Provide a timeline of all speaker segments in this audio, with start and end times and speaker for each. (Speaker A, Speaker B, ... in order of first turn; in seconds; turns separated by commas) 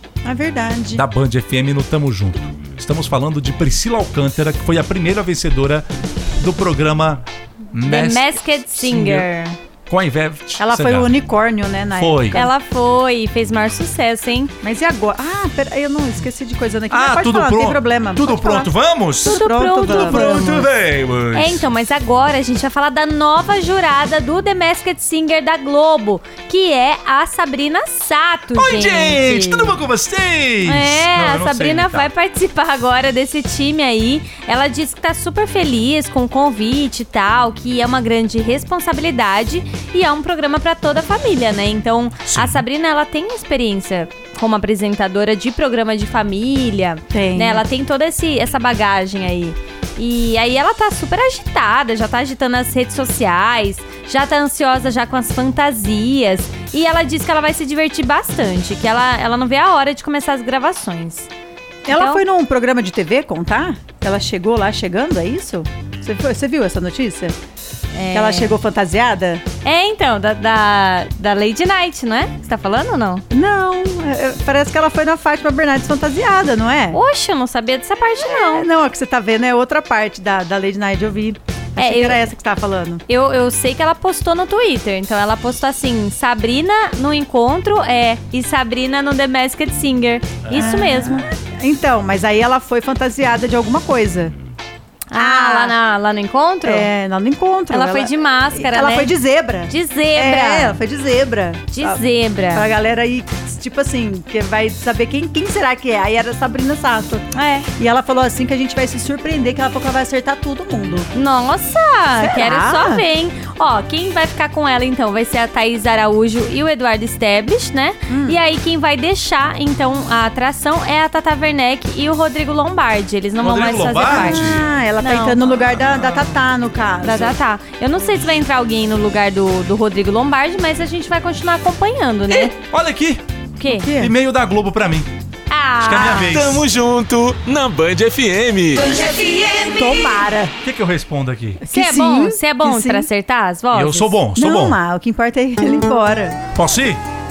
Speaker A: 0.2-1.0, Speaker B: 0.9-5.9, Speaker B: 6.4-7.2, Speaker B: 7.7-9.3, Speaker C: 7.8-9.6, Speaker B: 9.9-11.1, Speaker A: 10.6-12.5, Speaker B: 12.0-12.4, Speaker C: 12.3-14.5, Speaker A: 14.6-18.7, Speaker B: 16.9-21.6, Speaker A: 19.2-20.5, Speaker C: 19.2-20.7, Speaker C: 21.3-29.8, Speaker B: 28.5-32.1, Speaker C: 30.6-61.3, Speaker B: 42.2-42.6, Speaker A: 47.1-47.6, Speaker A: 61.8-67.3, Speaker C: 61.9-62.2, Speaker C: 67.9-68.6, Speaker A: 68.1-69.4, Speaker C: 69.6-73.2, Speaker A: 73.3-77.0, Speaker C: 76.9-78.7, Speaker A: 78.5-83.0, Speaker C: 81.8-82.2, Speaker C: 83.1-91.3, Speaker B: 90.4-90.7, Speaker A: 90.5-94.3, Speaker C: 95.1-96.9, Speaker A: 95.2-95.8, Speaker A: 96.6-111.1, Speaker C: 97.7-99.1, Speaker C: 99.7-100.8, Speaker C: 101.7-102.7, Speaker C: 107.3-107.7, Speaker C: 111.1-125.6, Speaker A: 112.2-113.0, Speaker A: 118.1-118.4, Speaker B: 123.4-124.6, Speaker A: 124.0-127.4, Speaker C: 127.0-132.5, Speaker B: 132.6-133.2, Speaker C: 133.6-133.9, Speaker A: 133.6-134.1, Speaker B: 133.9-135.1, Speaker C: 135.5-136.4, Speaker B: 135.8-136.7, Speaker D: 136.1-139.1, Speaker A: 139.0-140.5, Speaker B: 140.6-141.6, Speaker A: 141.6-143.1, Speaker C: 141.7-144.2, Speaker B: 143.7-144.8, Speaker A: 144.3-146.4, Speaker B: 146.5-147.0